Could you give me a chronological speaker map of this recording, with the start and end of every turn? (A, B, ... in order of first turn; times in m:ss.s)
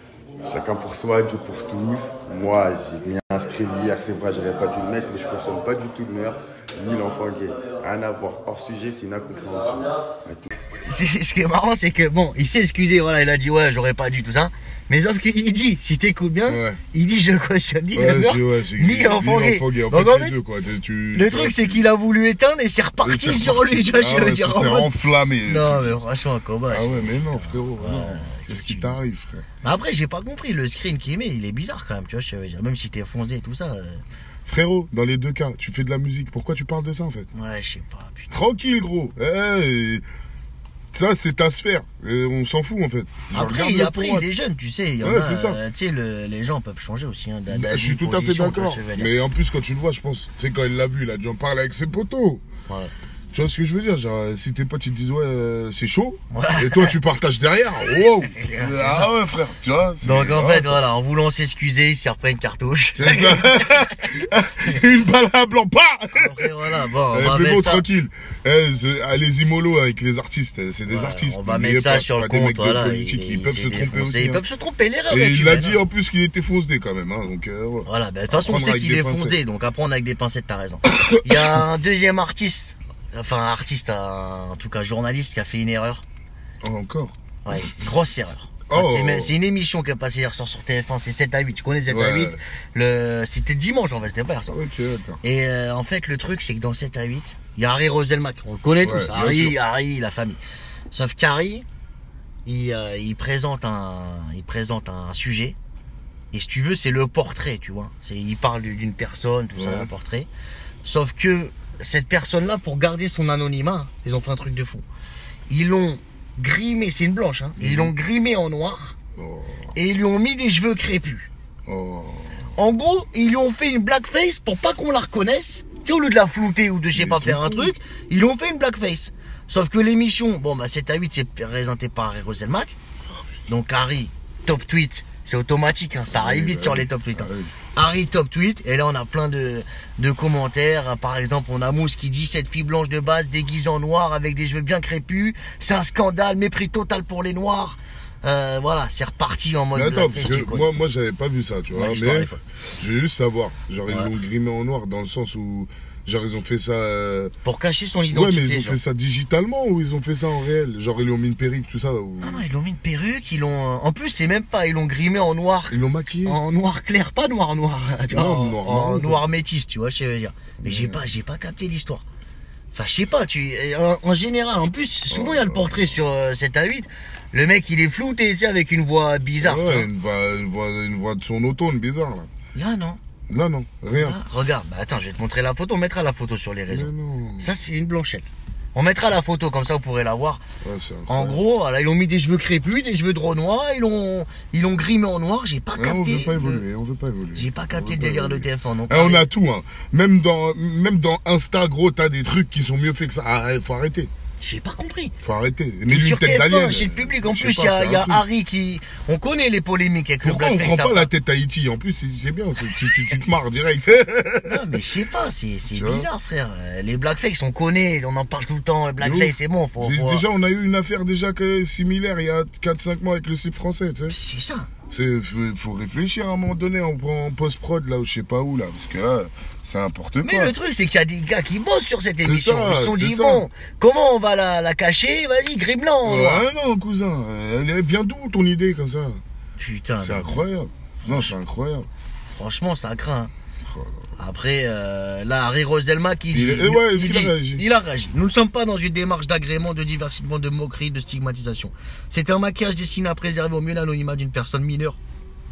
0:00.4-0:10.5 A
0:10.8-0:20.4 B
0:16.5-0:16.8 C
0:17.9-0:21.8 C
0:21.1-0:24.9 B
0:23.0-0:26.0 C
0:25.5-0:29.0 B
0:26.7-0:29.5 C
0:29.6-0:34.0 B
0:34.5-0:37.3 C
0:37.3-0:38.3 B
0:38.3-0:40.0 C
0:40.9-0:44.3 C
0:43.3-0:49.1 B
0:45.0-0:45.6 C
0:47.5-0:52.4 C
0:53.3-1:00.8 C
0:56.3-0:57.0 B
0:58.4-0:59.1 B
1:00.0-1:03.9 B
1:03.0-1:14.4 C
1:06.1-1:07.8 B
1:10.9-1:15.8 B
1:15.1-1:19.4 C
1:17.9-1:26.0 B
1:20.9-1:21.6 C
1:26.6-1:27.1 C
1:27.4-1:34.6 B
1:28.7-1:29.4 C
1:31.9-1:32.4 C
1:34.5-1:35.2 C
1:35.2-1:40.4 B
1:38.8-1:39.6 C
1:40.9-1:41.6 B
1:42.5-1:45.6 B
1:46.3-1:50.3 B
1:49.6-1:49.9 C
1:50.8-1:54.8 B
1:55.5-1:59.0 B
1:57.6-1:57.9 C
1:59.2-1:59.7 C
1:59.8-2:01.3 B
2:01.7-2:02.5 C
2:02.6-2:12.8 B
2:06.9-2:07.7 C
2:13.5-2:30.8 B
2:16.1-2:17.5 C
2:29.7-2:37.3 C
2:31.7-2:32.4 B
2:37.4-2:38.8 B
2:38.1-2:42.4 C
2:42.2-2:52.0 B
2:45.7-2:46.4 C
2:48.1-2:49.2 C
2:50.6-2:51.0 C
2:52.7-2:59.9 B
2:55.1-2:56.0 C
2:59.4-3:02.3 C
3:02.6-3:03.0 B
3:03.3-3:04.2 C
3:03.9-3:10.4 B
3:06.7-3:07.5 C
3:10.6-3:11.4 C
3:11.1-3:16.6 B
3:15.8-3:24.1 C
3:17.4-3:19.3 B
3:24.4-3:25.1 B
3:25.2-3:28.2 C
3:25.9-3:31.1 B
3:30.2-3:34.8 C
3:34.4-3:40.2 B
3:35.7-3:36.1 C
3:39.0-3:44.2 C
3:44.1-3:44.7 B
3:44.9-3:50.6 C
3:50.2-3:56.5 B
3:52.2-3:53.5 C
3:56.0-3:59.2 C
3:59.6-4:00.4 B
4:00.0-4:01.9 C
4:01.1-4:01.3 B
4:02.3-4:03.3 B
4:03.6-4:04.1 C
4:04.2-4:15.0 B
4:06.3-4:07.6 C